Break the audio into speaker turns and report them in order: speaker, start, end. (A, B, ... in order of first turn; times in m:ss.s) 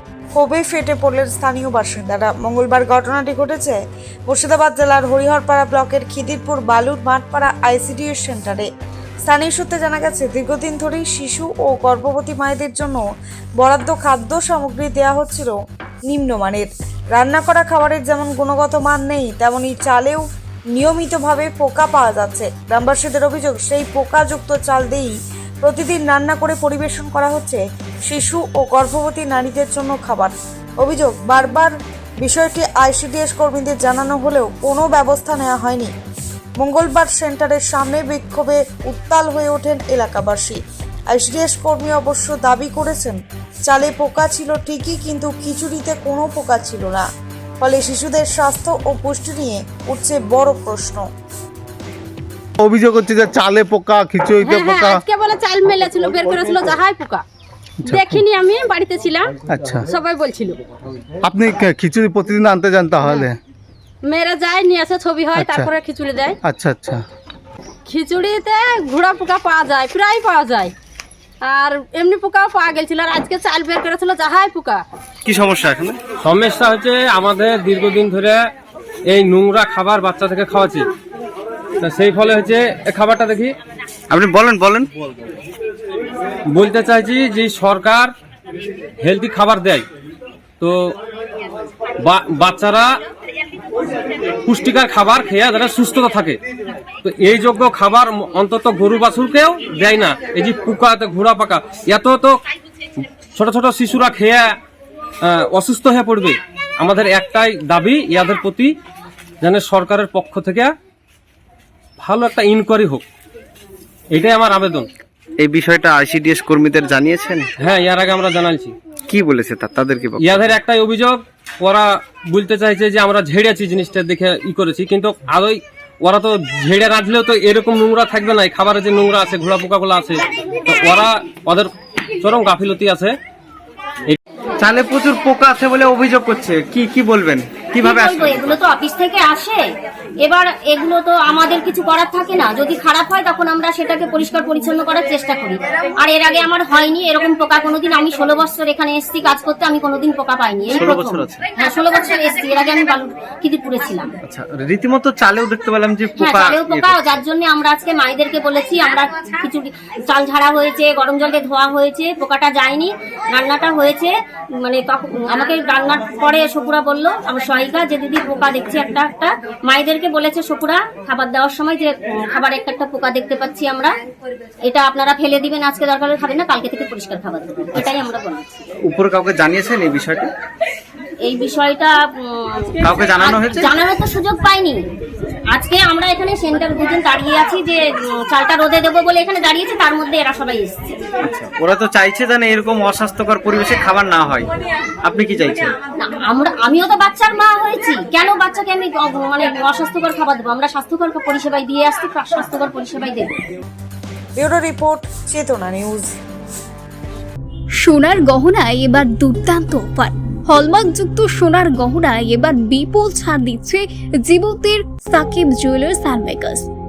0:00.4-0:08.7 A
0:09.2-0:13.0 A
0:13.6-0:35.9 A
0:36.6-0:47.1 A
0:47.6-0:51.1 A
0:52.6-0:55.0 B
0:54.4-0:57.2 C
0:57.8-0:58.2 B
0:57.9-0:59.3 C
0:59.4-0:59.9 B
0:59.9-1:00.6 C
1:01.2-1:03.4 B
1:04.0-1:06.4 C
1:05.4-1:05.7 B
1:06.4-1:07.0 B
1:07.9-1:10.7 C
1:11.4-1:14.8 C
1:15.2-1:16.0 D
1:16.2-1:18.4 E
1:19.1-1:20.9 E
1:21.8-1:23.6 E
1:24.1-1:24.9 D
1:26.5-1:28.1 E
1:29.0-1:29.9 E
1:30.6-1:31.0 E
1:32.0-1:32.9 E
1:34.5-1:36.4 E
1:37.0-1:42.3 E
1:43.3-1:44.5 E
1:45.2-1:48.7 E
1:49.4-1:50.7 E
1:52.0-1:53.0 E
1:54.1-1:54.9 E
1:55.4-1:57.5 D
1:57.6-1:58.8 E
1:59.1-2:00.6 D
2:00.2-2:13.2 E
2:14.6-2:18.6 D
2:17.8-2:19.6 F
2:20.2-2:34.1 F
2:30.7-2:31.4 D
2:34.2-2:37.2 D
2:36.2-2:54.0 F
2:54.7-2:58.7 F
2:58.8-3:00.3 D
3:01.2-3:04.8 F
3:02.8-3:03.7 D
3:05.5-3:11.0 F
3:11.2-3:14.5 D
3:15.0-3:15.8 D
3:16.0-3:23.4 F
3:24.4-3:26.1 A
3:27.8-3:36.7 G